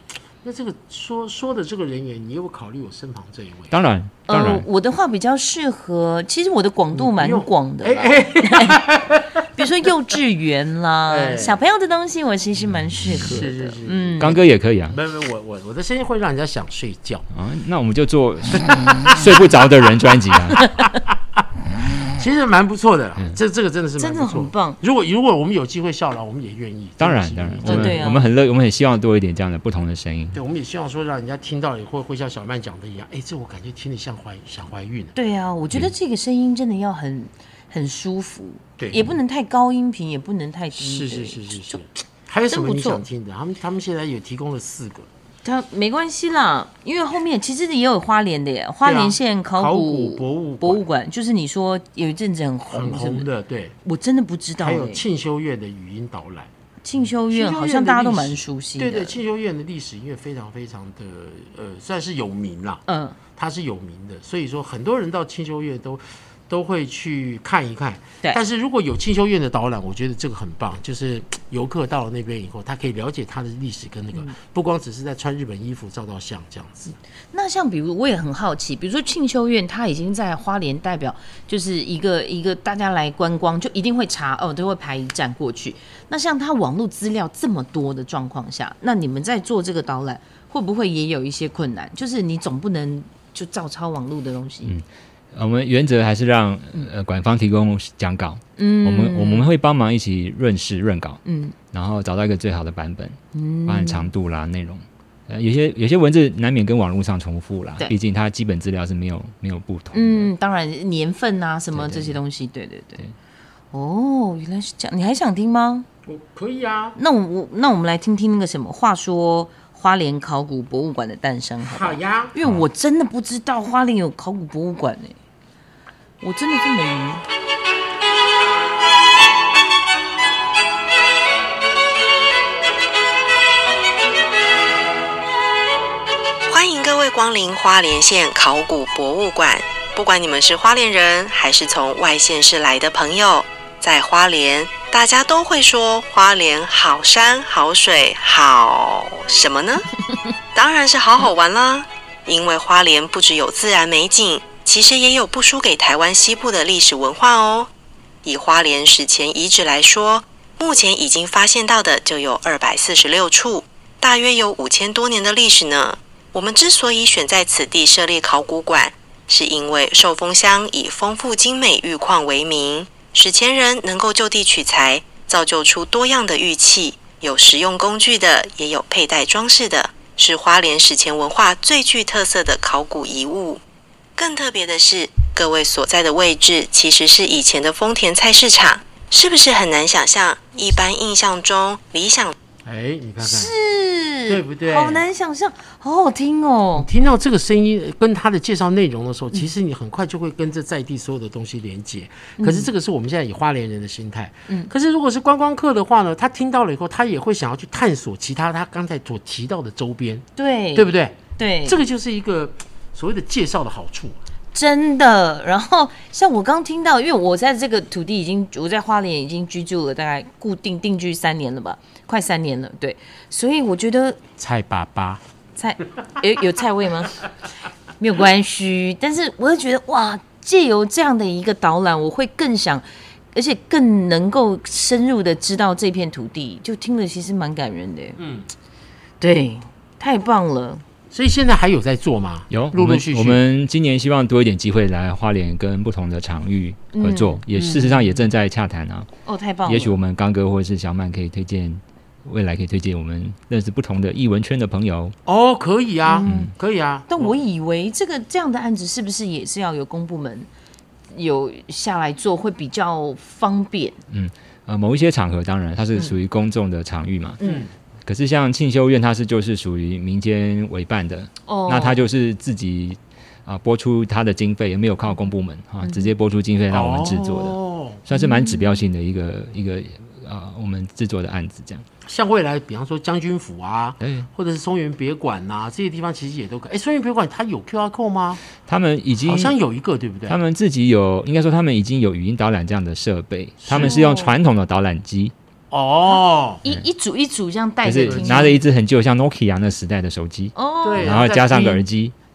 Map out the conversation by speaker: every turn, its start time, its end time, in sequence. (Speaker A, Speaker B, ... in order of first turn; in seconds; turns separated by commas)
Speaker A: 0.4-3.8, Speaker B: 3.7-4.7, Speaker C: 4.3-8.8, Speaker A: 7.0-9.7, Speaker C: 9.6-14.4, Speaker A: 11.1-11.6, Speaker B: 12.9-13.4, Speaker A: 13.2-17.3, Speaker B: 14.2-15.0, Speaker B: 17.3-20.6, Speaker A: 19.0-19.5, Speaker C: 20.6-20.9, Speaker A: 20.8-21.4, Speaker A: 22.1-28.1, Speaker C: 24.0-24.8, Speaker B: 27.0-30.4, Speaker C: 27.6-28.3, Speaker A: 30.3-35.1, Speaker C: 35.1-41.8, Speaker A: 38.8-39.1, Speaker A: 40.8-45.1, Speaker C: 42.5-43.0, Speaker C: 45.4-53.3, Speaker A: 48.8-50.8, Speaker A: 52.7-53.7, Speaker C: 53.8-55.0, Speaker A: 54.6-56.5, Speaker C: 56.8-59.2, Speaker A: 57.3-62.8, Speaker C: 62.9-63.2, Speaker A: 63.4-77.0, Speaker C: 77.3-94.7, Speaker B: 94.6-101.2, Speaker C: 98.6-99.5, Speaker C: 101.2-101.5, Speaker B: 101.7-110.3, Speaker C: 103.3-104.1, Speaker C: 109.9-113.1, Speaker B: 111.7-112.2, Speaker C: 113.7-115.9, Speaker A: 116.1-117.0, Speaker C: 117.0-125.2, Speaker A: 121.6-122.4, Speaker C: 126.2-127.2, Speaker D: 136.5-149.9, Speaker D: 150.5-157.7, Speaker D: 158.2-183.6, Speaker D: 184.2-192.3, Speaker A: 192.6-193.5, Speaker C: 193.2-196.9, Speaker A: 194.3-195.0, Speaker A: 196.8-214.2, Speaker C: 202.4-202.7, Speaker C: 210.4-211.8, Speaker C: 214.5-224.2, Speaker A: 224.4-225.2, Speaker C: 225.6-227.3, Speaker C: 228.0-238.2, Speaker A: 238.2-238.5, Speaker C: 239.2-240.8, Speaker A: 241.1-243.4, Speaker B: 242.5-249.1, Speaker C: 246.9-247.4, Speaker A: 247.6-247.9, Speaker C: 249.2-249.9, Speaker B: 249.7-255.2, Speaker A: 255.3-257.4, Speaker C: 256.1-256.5, Speaker B: 256.2-256.5, Speaker C: 257.1-260.5, Speaker C: 261.1-264.0, Speaker B: 264.1-267.4, Speaker C: 267.4-267.6, Speaker A: 267.4-267.7, Speaker B: 268.1-281.9, Speaker C: 271.5-272.1, Speaker C: 275.8-276.1, Speaker A: 276.7-278.0, Speaker C: 278.1-278.7, Speaker A: 282.1-288.4, Speaker B: 284.0-284.3, Speaker B: 288.6-289.6, Speaker A: 289.2-290.4, Speaker B: 290.3-295.3, Speaker A: 293.6-294.0, Speaker C: 293.8-294.3, Speaker A: 295.7-296.6, Speaker C: 296.6-298.6, Speaker B: 297.8-302.1, Speaker A: 298.0-298.5, Speaker C: 300.6-301.8, Speaker A: 300.8-301.7